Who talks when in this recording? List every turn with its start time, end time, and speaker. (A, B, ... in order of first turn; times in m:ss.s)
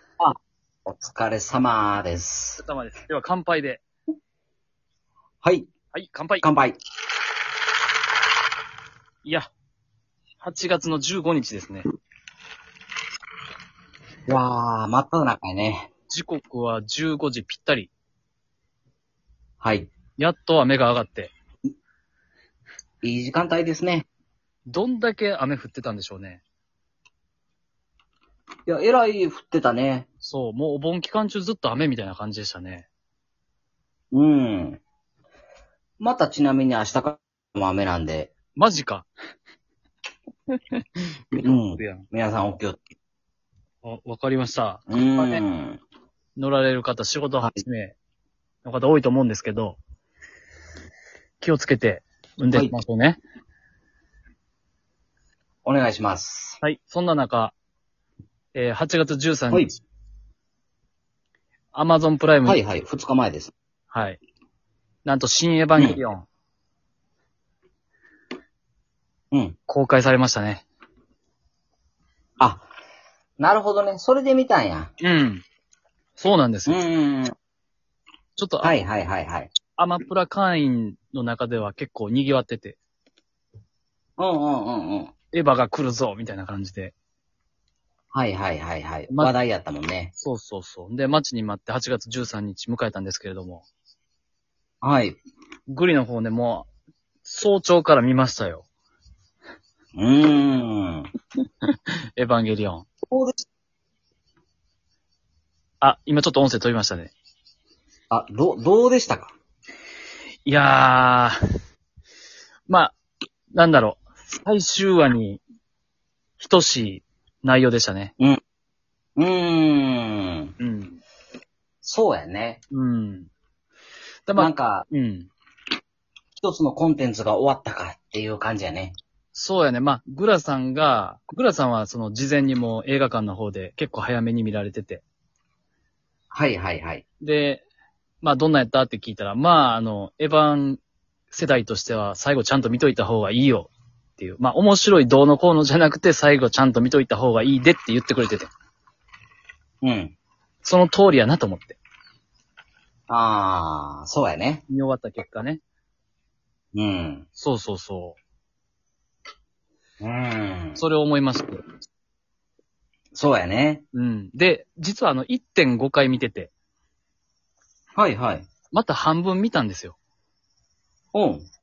0:00.2-0:02.6 A
0:02.6-0:03.8 B
0:05.4-0:05.7 A
0:05.9-0:06.5 B
0:06.4-0:06.8 A
0:10.4-0:11.9 B
0:14.3-0:15.9 A
0:16.1-0:17.9 B
0:19.6-0:19.9 A
0:20.2-0:21.3 B
0:23.0-0:24.1 A
0:24.7-0:26.4 B
0:28.7-0:30.1 A
0:30.2-0:32.9 B
0:34.1-0:34.8 A
0:36.0-0:38.3 A
0:38.6-0:39.1 B
0:40.5-0:40.8 B
0:41.3-0:42.1 B
0:41.4-0:42.8 A
0:43.8-0:45.4 B
0:44.9-0:45.8 A
0:46.4-0:48.0 B
0:48.6-0:49.8 B
0:51.4-0:53.2 B
0:55.6-0:56.6 A
0:56.6-0:57.5 B
0:58.5-0:59.7 B
1:01.7-1:02.6 B
1:02.5-1:03.5 A
1:03.9-1:04.2 B
1:05.0-1:06.3 B
1:09.7-1:10.6 B
1:12.4-1:12.7 A
1:13.4-1:14.9 A
1:15.0-1:15.4 B
1:16.2-1:16.8 B
1:16.7-1:17.3 A
1:18.4-1:18.8 B
1:18.6-1:19.5 A
1:19.8-1:22.8 B
1:24.2-1:25.1 A
1:25.3-1:26.9 B
1:28.1-1:30.1 A
1:30.2-1:33.6 B
1:34.8-1:35.2 A
1:35.7-1:36.7 B
1:37.2-1:38.6 B
1:40.0-1:41.1 A
1:41.7-1:42.9 B
1:43.1-1:43.4 A
1:45.8-1:47.1 B
1:48.1-1:49.3 A
1:50.5-1:51.4 B
1:52.7-1:53.0 B
1:53.5-1:55.4 B
1:56.4-1:58.1 B
1:59.2-2:00.5 A
2:00.6-2:01.0 B
2:01.8-2:02.6 A
2:02.7-2:03.3 B
2:04.3-2:05.3 B
2:04.4-2:04.9 A
2:06.4-2:08.9 A
2:09.3-2:15.0 B
2:16.3-2:17.0 A
2:17.2-2:17.6 B
2:18.2-2:20.8 B
2:21.3-2:28.5 B
2:29.8-2:30.1 A
2:30.6-2:31.8 B
2:33.1-2:34.6 A
2:34.7-2:35.6 B
2:36.7-2:37.3 A
2:37.4-2:38.2 B
2:40.0-2:40.8 A
2:40.8-2:41.6 B
2:43.1-2:43.8 A
2:43.9-2:46.5 B
2:48.0-2:48.5 A
2:48.7-2:50.0 B
2:51.1-2:51.5 A